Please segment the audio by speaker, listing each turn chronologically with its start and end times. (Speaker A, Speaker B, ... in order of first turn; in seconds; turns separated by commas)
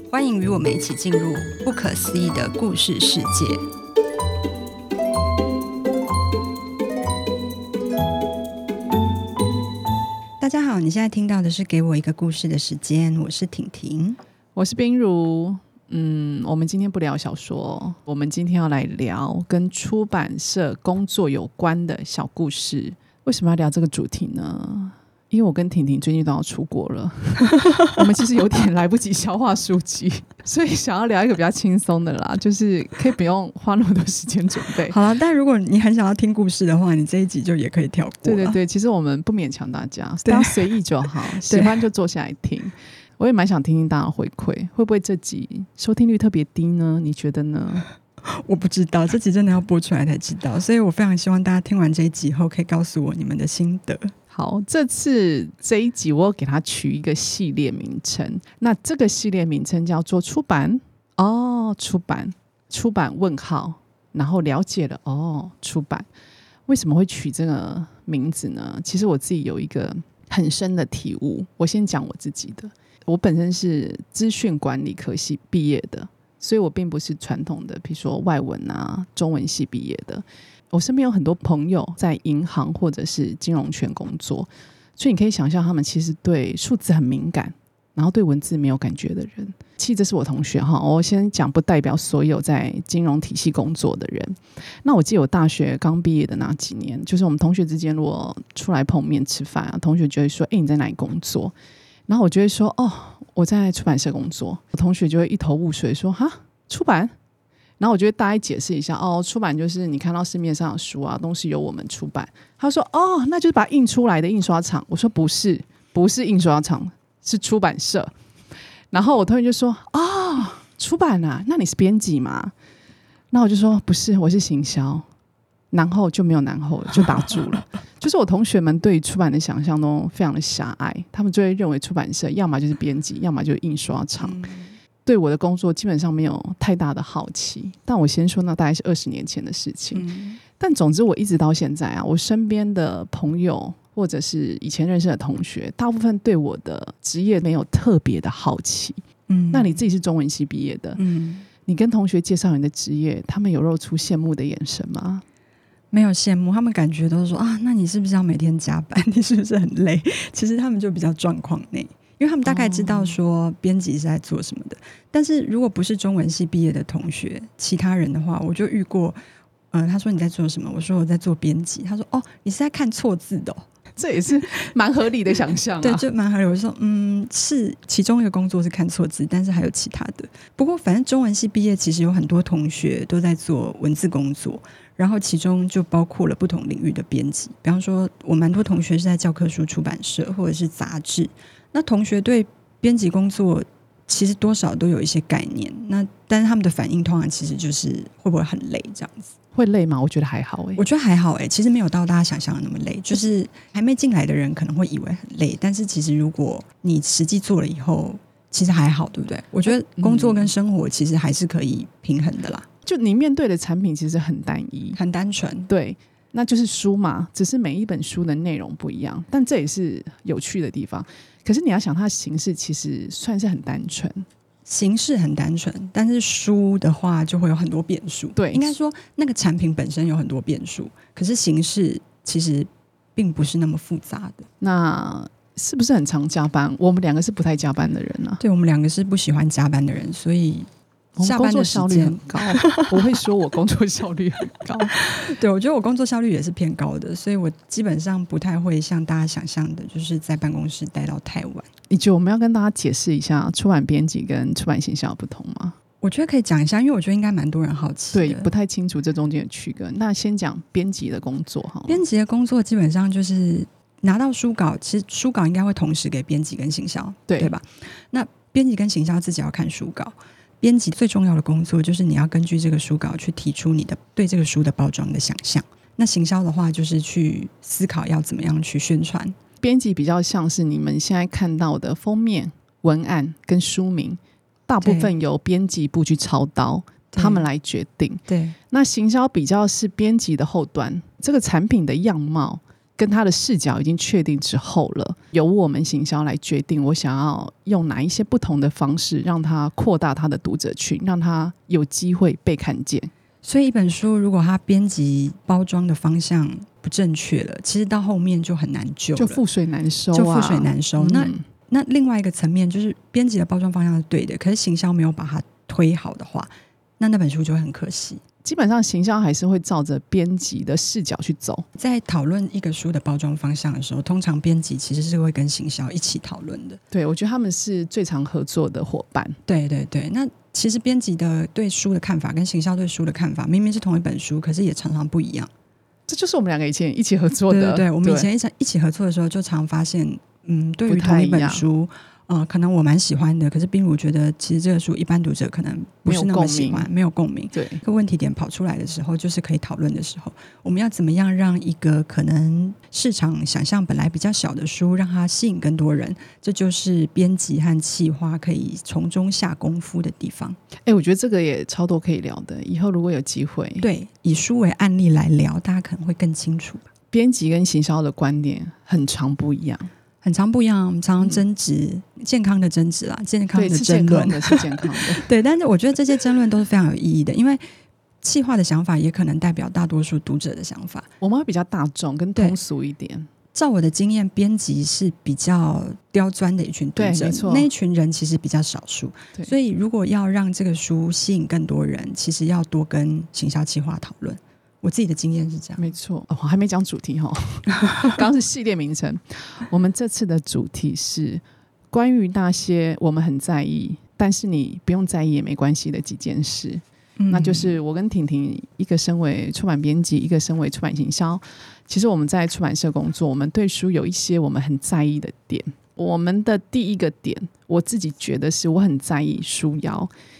Speaker A: 0.1-3.6, Speaker A: 10.4-14.2, Speaker B: 14.5-35.0, Speaker A: 34.9-38.6, Speaker B: 38.2-47.9, Speaker A: 40.2-40.5, Speaker A: 41.2-41.8, Speaker A: 48.2-54.1, Speaker B: 54.3-66.1, Speaker B: 66.7-101.5, Speaker B: 102.1-107.1, Speaker B: 107.8-118.1, Speaker B: 118.9-122.5, Speaker B: 123.3-125.0, Speaker B: 125.7-134.4, Speaker A: 134.2-134.7, Speaker B: 135.1-140.1, Speaker A: 139.9-140.4, Speaker B: 140.6-151.0, Speaker A: 149.3-149.7, Speaker A: 151.0-151.4, Speaker B: 151.7-155.2, Speaker A: 155.9-169.2, Speaker B: 162.5-163.1, Speaker A: 169.7-173.7, Speaker B: 174.0-176.0, Speaker A: 175.8-199.3, Speaker B: 199.5-200.8, Speaker A: 200.8-212.7, Speaker B: 209.7-210.5, Speaker B: 212.8-215.0, Speaker A: 214.9-215.7, Speaker B: 215.7-224.2, Speaker A: 224.7-234.5, Speaker B: 228.3-228.7, Speaker B: 234.6-238.4, Speaker A: 238.4-240.7, Speaker B: 241.2-245.0, Speaker A: 241.2-243.2, Speaker A: 244.9-251.7, Speaker B: 251.9-255.8, Speaker A: 256.0-258.5, Speaker B: 258.1-262.0, Speaker A: 261.9-279.3, Speaker B: 279.6-303.1, Speaker A: 284.8-285.1, Speaker A: 287.1-287.4, Speaker A: 288.3-288.6, Speaker A: 303.4-309.4, Speaker B: 309.1-311.4, Speaker A: 310.1-318.2, Speaker B: 318.4-321.6, Speaker A: 321.8-326.8, Speaker B: 326.9-329.4, Speaker A: 329.5-335.5, Speaker B: 336.1-338.3, Speaker A: 337.5-360.6, Speaker B: 340.9-341.6, Speaker B: 346.1-346.9, Speaker B: 347.5-347.8, Speaker B: 360.9-363.9, Speaker A: 363.8-366.8, Speaker B: 367.1-369.9, Speaker A: 370.2-377.6, Speaker B: 373.5-375.3, Speaker A: 378.2-381.1, Speaker B: 381.2-383.3, Speaker A: 383.5-395.8, Speaker B: 386.9-387.7, Speaker B: 395.8-420.1, Speaker A: 407.2-407.8